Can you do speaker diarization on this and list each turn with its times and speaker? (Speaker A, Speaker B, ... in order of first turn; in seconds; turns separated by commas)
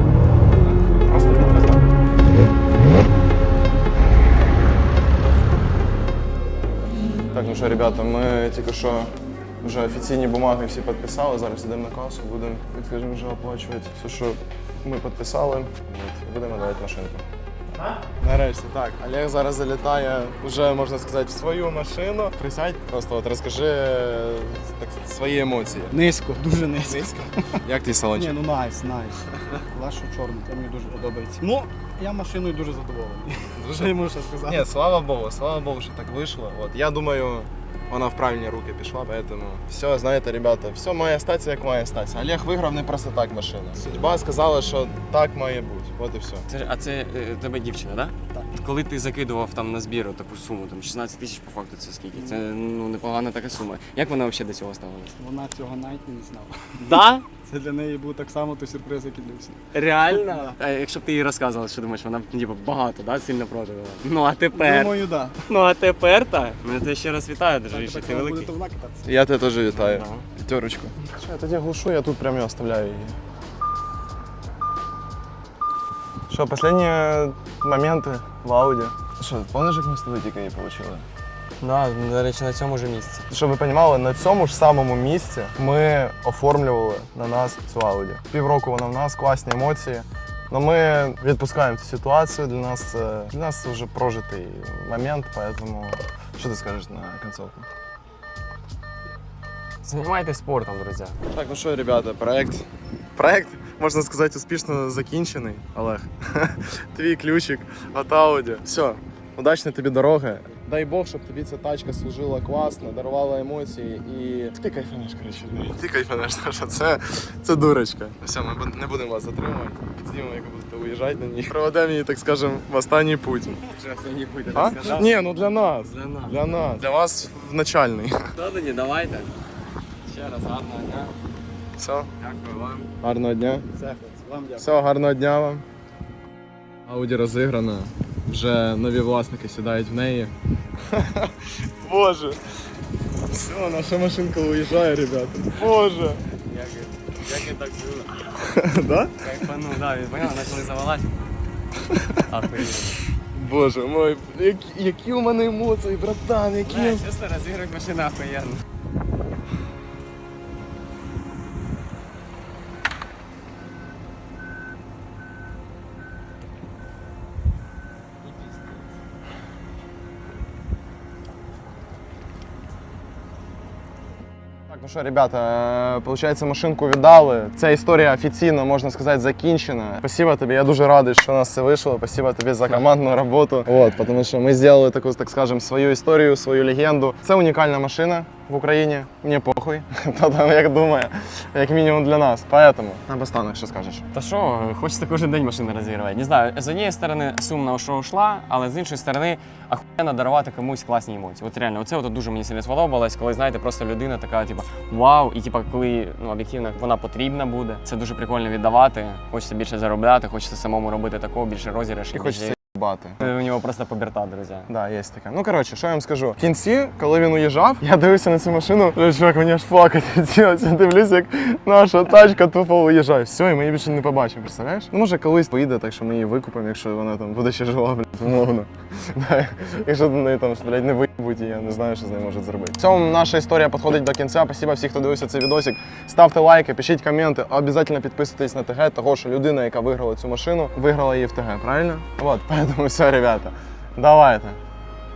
Speaker A: 1.1-1.8, Speaker A: 7.3-9.1, Speaker A: 9.6-17.2, Speaker A: 18.2-26.0, Speaker B: 25.9-27.6, Speaker A: 26.8-28.4, Speaker B: 28.1-33.5, Speaker A: 33.5-46.5, Speaker C: 46.5-55.1, Speaker B: 55.2-60.5, Speaker C: 56.8-57.2, Speaker C: 59.7-68.5, Speaker B: 64.5-65.4, Speaker B: 67.7-69.1, Speaker A: 69.0-73.2, Speaker C: 69.7-70.2, Speaker A: 76.3-81.0, Speaker C: 81.6-83.2, Speaker A: 83.3-97.7, Speaker C: 99.8-101.2, Speaker A: 101.3-102.6, Speaker A: 103.2-123.6, Speaker C: 123.7-125.2, Speaker A: 124.5-128.3, Speaker C: 125.8-126.4, Speaker C: 128.3-129.4, Speaker C: 130.0-131.1, Speaker A: 131.8-132.1, Speaker C: 132.1-132.9, Speaker A: 133.0-133.7, Speaker B: 133.7-134.7, Speaker A: 134.6-135.6, Speaker A: 136.8-140.3, Speaker A: 140.8-142.4, Speaker A: 143.3-146.2, Speaker C: 146.3-148.4, Speaker A: 148.4-149.2, Speaker C: 149.2-151.1, Speaker A: 151.9-152.2, Speaker C: 152.2-153.0, Speaker A: 153.3-157.0, Speaker C: 156.6-158.6, Speaker A: 174.7-194.0, Speaker C: 194.1-212.6, Speaker A: 212.1-213.3, Speaker C: 213.2-214.7, Speaker A: 214.7-244.6